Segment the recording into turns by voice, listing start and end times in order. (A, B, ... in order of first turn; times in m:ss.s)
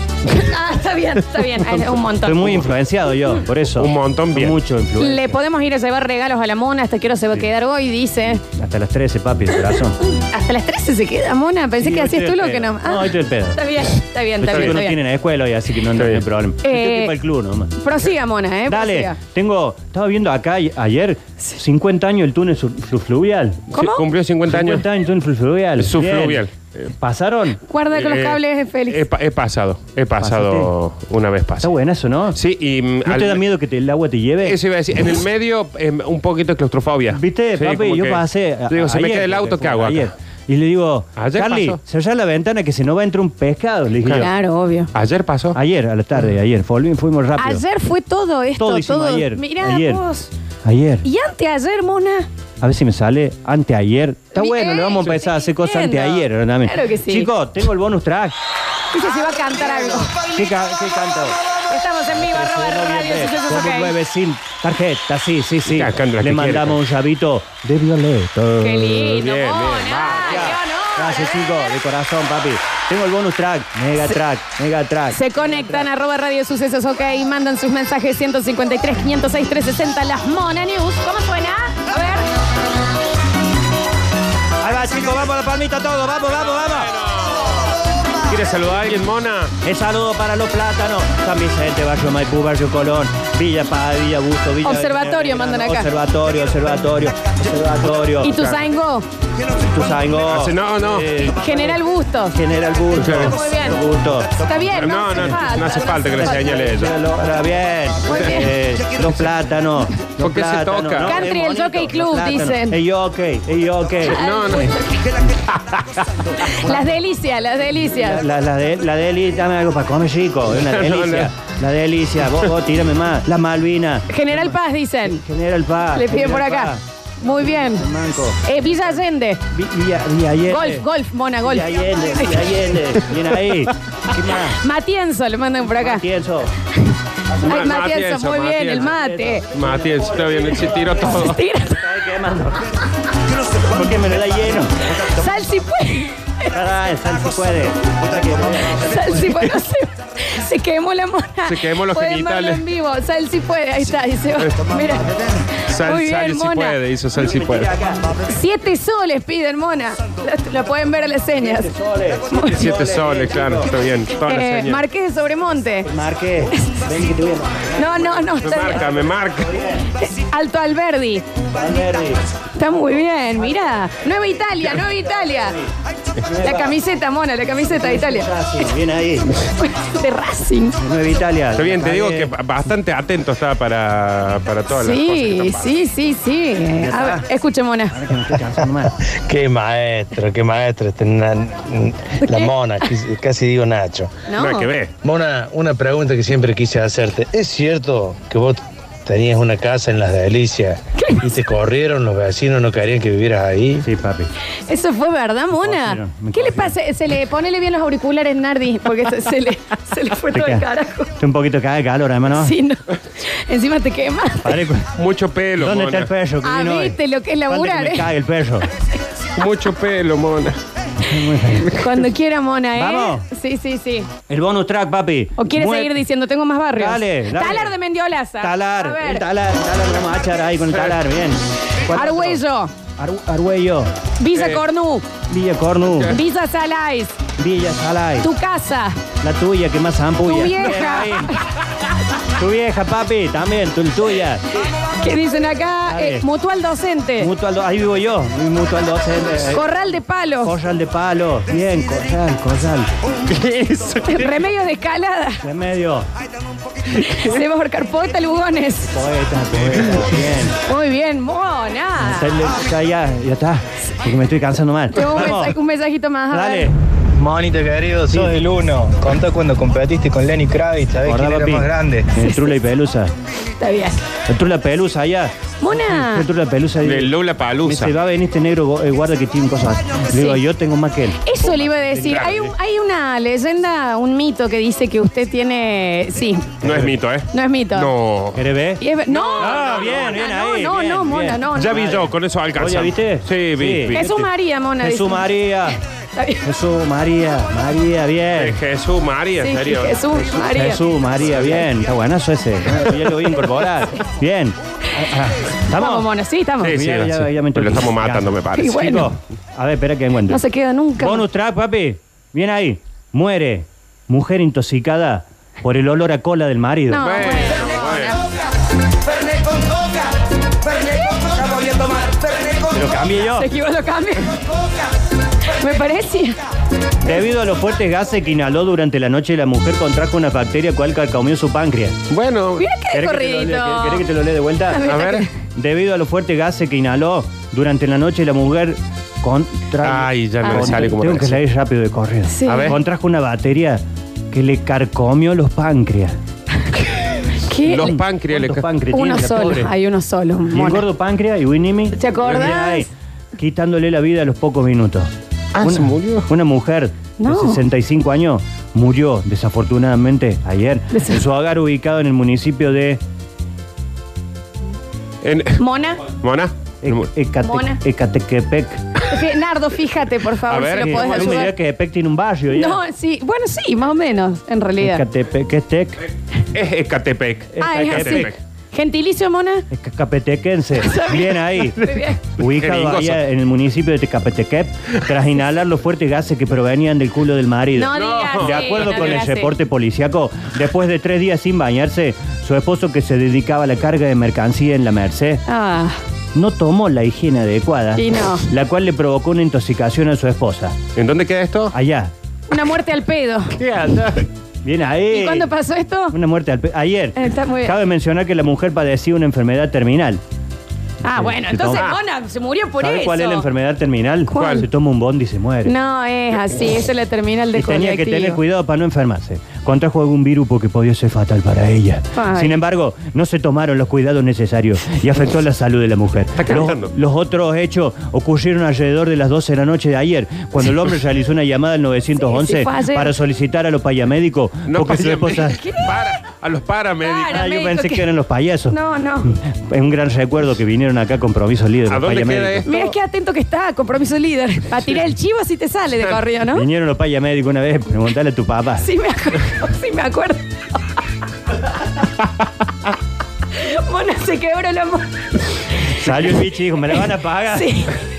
0:00.2-0:02.7 A
0:02.1-0:05.4 B
0:03.7-0:04.6 C
0:05.0-0:08.4 A
0:08.4-0:10.0 B
0:10.0-0:15.0 A
0:11.8-0:13.6 B
0:14.4-0:17.8 B
0:14.4-0:14.8 C
0:16.0-0:16.2 C
0:16.6-0:17.2 A
0:17.8-0:19.2 A
0:18.7-0:23.6 B
0:23.7-0:24.8 C
0:23.7-0:24.0 A
0:24.5-0:27.6 B
0:25.8-0:26.9 C
0:27.7-0:29.0 A
0:27.9-0:31.7 C
0:30.2-0:30.7 B
0:31.6-0:32.4 B
0:32.3-0:33.4 C
0:33.0-0:34.6 B
0:34.4-0:40.1 C
0:37.1-0:44.3 B
0:41.2-0:41.8 C
0:44.1-0:44.9 A
0:44.9-0:45.6 C
0:45.5-0:47.6 B
0:47.4-0:50.3 A
0:48.6-0:50.0 B
0:50.6-0:51.0 B
0:51.0-0:52.3 A
0:52.6-0:58.3 B
0:54.3-0:57.3 A
0:58.9-1:00.3 A
1:00.2-1:01.4 B
1:01.5-1:03.9 A
1:02.1-1:09.1 B
1:05.7-1:06.8 C
1:08.6-1:11.8 A
1:09.0-1:10.5 C
1:10.1-1:15.9 B
1:15.1-1:22.2 A
1:24.6-1:26.9 B
1:26.6-1:29.5 C
1:29.6-1:38.4 B
1:34.6-1:35.9 A
1:38.2-1:39.0 A
1:38.3-1:38.6 C
1:39.6-1:54.2 B
1:40.2-1:41.1 C
1:41.3-1:42.4 A
1:42.9-1:43.4 C
1:43.0-1:43.8 A
1:44.4-1:46.8 A
1:44.7-1:46.9 C
1:48.0-1:48.5 A
1:50.2-1:51.2 C
1:51.0-1:52.8 A
1:54.0-1:55.2 A
1:54.1-1:56.0 C
1:56.3-1:57.0 B
1:56.4-1:58.2 A
1:57.8-2:06.8 B
2:00.5-2:01.3 C
2:04.1-2:05.2 A
2:05.9-2:07.9 A
2:07.4-2:10.9 B
2:08.4-2:09.4 A
2:10.5-2:12.6 A
2:11.4-2:14.6 B
2:14.5-2:16.0 A
2:15.7-2:16.5 B
2:16.8-2:19.4 A
2:17.4-2:19.0 C
2:18.8-2:22.8 B
2:19.5-2:21.4 C
2:21.0-2:21.8 A
2:23.6-2:25.0 B
2:24.8-2:26.5 A
2:26.5-2:29.5 B
2:28.7-2:36.8 A
2:31.4-2:32.6 C
2:34.4-2:35.0 C
2:35.6-2:37.7 C
2:37.2-2:38.1 B
2:38.2-2:41.7 A
2:41.3-2:43.8 B
2:42.3-2:42.7 A
2:42.5-2:44.8 C
2:44.2-2:45.9 A
2:45.8-2:49.8 B
2:46.6-2:46.8 A
2:47.7-2:48.8 A
2:48.4-2:49.5 C
2:49.8-2:51.2 A
2:51.5-2:52.2 B
2:52.5-2:55.6 A
2:55.2-2:55.7 B
2:56.2-2:56.8 B
2:56.4-2:58.3 A
2:57.6-2:59.3 B
2:59.4-3:00.8 A
3:00.8-3:02.3 B
3:01.5-3:05.8 C
3:04.7-3:08.0 A
3:06.8-3:07.3 B
3:07.9-3:08.9 B
3:08.9-3:14.2 D
3:12.2-3:12.5 A
3:14.3-3:14.7 A
3:14.4-3:14.9 C
3:15.0-3:23.8 D
3:21.0-3:21.2 A
3:23.8-3:24.3 B
3:24.7-3:31.1 A
3:25.6-3:26.8 B
3:30.3-3:32.5 B
3:32.4-3:34.6 A
3:34.4-3:35.0 B
3:34.9-3:36.1 C
3:35.6-3:38.7 B
3:36.4-3:38.1 A
3:39.4-3:40.6 C
3:41.0-3:41.7 B
3:41.6-3:44.1 A
3:42.7-3:43.2 B
3:44.3-3:46.0 B
3:45.4-3:49.2 A
3:46.7-3:47.7 B
3:48.4-3:52.4 B
3:50.7-3:51.0 C
3:51.9-3:52.7 A
3:53.0-3:53.9 B
3:54.2-3:55.1 A
3:54.3-3:54.6 C
3:55.3-3:56.2 B
3:55.8-3:56.2 C
3:56.1-3:57.2 A
3:57.4-3:58.3 B
3:58.2-3:59.0 A
3:59.2-4:01.4 B
4:00.2-4:01.4 A
4:02.2-4:04.4 B
4:04.9-4:07.3 A
4:05.8-4:06.2 B
4:07.2-4:12.9 B
4:09.5-4:10.5 A
4:13.3-4:14.3 C
4:14.0-4:15.4 A
4:15.4-4:16.1 B
4:16.9-4:19.0 A
4:18.9-4:20.6 B
4:20.6-4:22.4 A
4:22.0-4:25.6 B
4:24.9-4:26.7 A
4:26.3-4:26.8 B
4:27.2-4:32.1 D
4:28.1-4:28.4 B
4:31.0-4:33.1 B
4:32.2-4:32.6 A
4:33.6-4:34.0 A
4:34.3-4:42.4 B
4:35.6-4:36.3 A
4:36.8-4:37.9 C
4:40.1-4:40.4 A
4:41.2-4:46.6 A
4:41.5-4:42.4 C
4:46.6-4:47.0 B
4:46.6-4:48.5 C
4:47.3-4:47.9 A
4:48.3-4:54.3 B
4:48.8-4:51.9 A
4:49.1-4:50.1 C
4:51.5-4:54.0 C
4:53.9-4:55.4 A
4:54.8-4:55.8 B
4:56.1-4:56.4 A
4:56.4-4:58.6 B
4:58.4-5:00.2 C
4:59.4-5:00.8 A
5:00.4-5:06.1 B
5:01.3-5:01.6 C
5:05.7-5:06.8 A
5:06.6-5:08.8 C
5:06.7-5:10.4 B
5:08.6-5:09.1 A
5:10.3-5:11.2 A
5:11.0-5:17.2 B
5:16.9-5:17.9 A
5:17.0-5:18.2 C
5:22.6-5:23.5 B
5:23.2-5:24.4 A
5:25.5-5:26.4 A
5:27.0-5:32.0 B
5:32.1-5:32.7 C
5:32.6-5:34.1 A
5:32.9-5:34.9 B
5:34.7-5:35.3 A
5:34.8-5:35.2 C
5:35.5-5:46.2 B
5:39.8-5:41.4 C
5:40.4-5:40.8 A
5:42.3-5:42.8 A
5:42.5-5:42.8 C
5:46.7-5:48.7 C
5:47.4-5:48.0 A
5:47.8-5:49.7 B
5:48.9-5:50.8 A
5:50.5-6:03.0 B
5:51.9-5:52.9 A
5:55.5-5:56.3 C
5:57.2-5:57.6 A
6:00.9-6:01.2 A
6:05.2-6:07.1 C
6:05.6-6:06.0 A
6:06.8-6:09.0 B
6:07.4-6:07.8 A
6:09.0-6:11.5 A
6:10.5-6:11.5 C
6:10.8-6:12.8 B
6:12.5-6:15.0 A
6:14.8-6:16.0 B
6:16.5-6:18.4 C
6:17.5-6:18.3 B
6:17.6-6:19.6 A
6:19.7-6:35.4 B
6:20.8-6:22.2 A
6:22.4-6:23.2 C
6:27.7-6:29.5 A
6:27.9-6:29.2 C
6:35.5-6:36.0 A
6:36.3-6:40.8 B
6:38.0-6:38.5 A
6:41.0-6:41.7 C
6:41.7-6:42.1 B
6:42.5-6:43.6 A
6:43.6-6:44.2 C
6:44.6-6:45.5 B
6:45.1-6:46.2 A
6:46.1-6:50.2 B
6:47.2-6:47.8 A
6:51.0-6:53.5 A
6:51.0-6:51.9 B
6:51.7-6:52.0 C
6:52.8-6:55.8 B
6:54.3-6:54.7 A
6:54.4-6:54.6 C
6:55.6-6:58.4 A
6:57.5-7:15.6 B
7:02.1-7:02.6 A
7:06.4-7:06.9 C
7:12.2-7:13.1 A
7:14.7-7:17.5 C
7:15.5-7:16.2 A
7:17.0-7:18.1 A
7:17.3-7:22.7 B
7:18.7-7:19.3 A
7:21.9-7:22.9 C
7:22.6-7:26.6 A
7:26.5-7:28.9 B
7:28.8-7:30.8 A
7:33.5-7:35.9 A
7:35.9-7:37.8 B
7:36.9-7:38.0 A